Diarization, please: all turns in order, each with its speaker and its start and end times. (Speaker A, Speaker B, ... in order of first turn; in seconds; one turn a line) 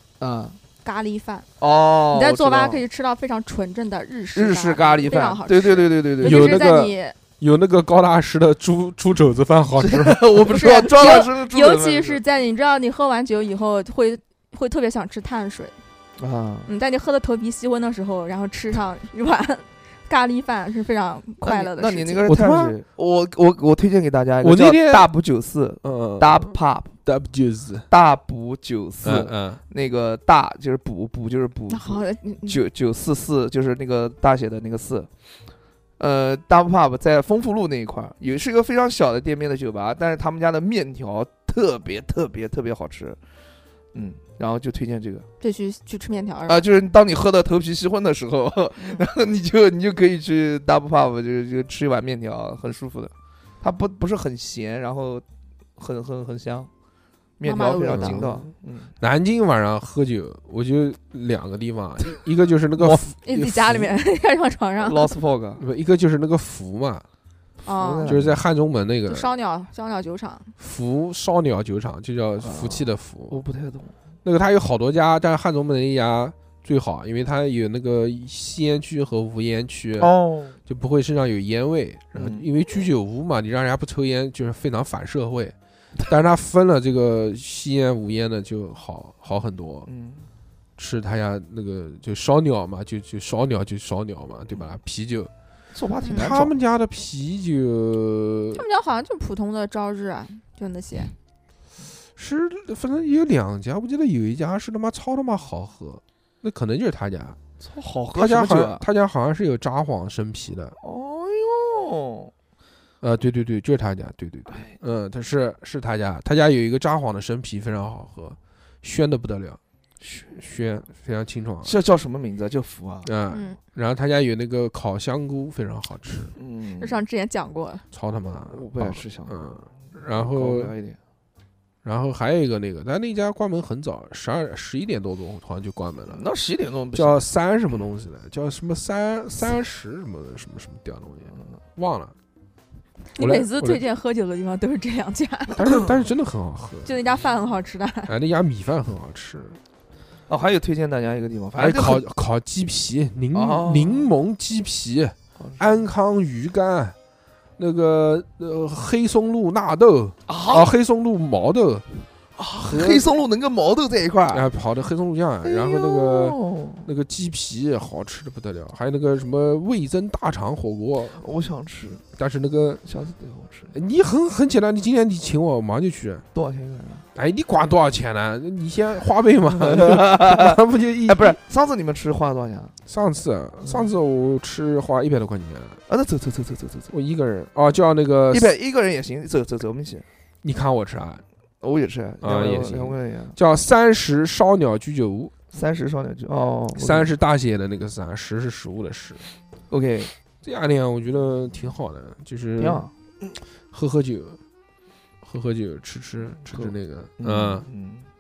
Speaker A: 0.2-0.6
Speaker B: 0.8-1.5
Speaker A: 1.6-2.8
Speaker B: 2.1-7.1
Speaker A: 4.3-6.7
Speaker C: 6.2-10.2
Speaker A: 9.8-12.2
Speaker B: 10.5-15.8
Speaker A: 16.2-16.7
Speaker B: 16.7-22.3
Speaker A: 21.4-26.9
Speaker C: 22.3-22.8
Speaker C: 24.4-25.1
Speaker C: 25.8-26.5
Speaker C: 27.0-27.9
Speaker A: 27.9-35.1
Speaker C: 29.0-29.6
Speaker B: 31.7-32.6
Speaker A: 36.0-43.2
Speaker A: 43.9-45.2
Speaker B: 45.4-46.6
Speaker A: 46.5-55.2
Speaker B: 48.8-49.0
Speaker A: 55.8-56.7
Speaker A: 57.4-58.9
Speaker B: 57.4-58.3
Speaker C: 57.9-58.4
Speaker C: 59.0-63.9
Speaker B: 63.2-65.1
Speaker A: 64.8-65.6
Speaker C: 65.6-67.0
Speaker B: 67.7-68.2
Speaker A: 67.7-68.4
Speaker C: 68.0-69.3
Speaker B: 69.1-70.5
Speaker C: 70.6-73.4
Speaker A: 72.4-73.9
Speaker C: 74.2-80.1
Speaker A: 80.0-80.6
Speaker C: 80.7-85.5
Speaker A: 82.1-82.5
Speaker C: 86.0-89.9
Speaker A: 89.8-90.3
Speaker C: 90.8-95.3
Speaker A: 95.7-96.6
Speaker C: 96.1-98.6
Speaker B: 98.5-101.1
Speaker C: 102.2-107.4
Speaker A: 107.6-108.8
Speaker C: 108.2-110.8
Speaker A: 110.8-112.3
Speaker C: 113.0-119.6
Speaker A: 120.0-120.4
Speaker C: 120.4-121.7
Speaker A: 121.6-123.1
Speaker C: 123.0-126.3
Speaker B: 123.3-123.6
Speaker A: 126.4-127.0
Speaker B: 126.8-127.8
Speaker C: 127.9-130.7
Speaker A: 128.4-131.0
Speaker C: 131.8-136.2
Speaker A: 136.1-137.2
Speaker C: 136.9-142.1
Speaker B: 143.1-145.6
Speaker C: 143.2-143.8
Speaker C: 145.6-146.9
Speaker B: 146.8-148.1
Speaker C: 148.1-149.6
Speaker A: 150.3-152.0
Speaker C: 151.6-156.9
Speaker A: 153.3-154.1
Speaker A: 155.4-155.9
Speaker C: 157.6-162.0
Speaker A: 160.3-160.7
Speaker A: 162.4-164.5
Speaker C: 162.6-163.0
Speaker C: 164.3-171.2
Speaker A: 165.4-166.8
Speaker A: 171.2-172.0
Speaker C: 172.1-172.8
Speaker A: 172.8-173.7
Speaker C: 173.7-176.2
Speaker A: 176.3-177.1
Speaker C: 177.1-181.4
Speaker A: 179.6-182.7
Speaker C: 182.9-185.8
Speaker A: 185.9-186.9
Speaker C: 186.9-188.5
Speaker A: 188.3-190.0
Speaker C: 190.4-191.2
Speaker A: 191.6-193.4
Speaker C: 192.2-195.3
Speaker A: 195.5-197.1
Speaker C: 196.7-199.2
Speaker A: 199.7-200.1
Speaker C: 200.4-202.9
Speaker A: 202.6-202.9
Speaker C: 203.7-204.4
Speaker C: 205.2-207.7
Speaker A: 206.5-208.1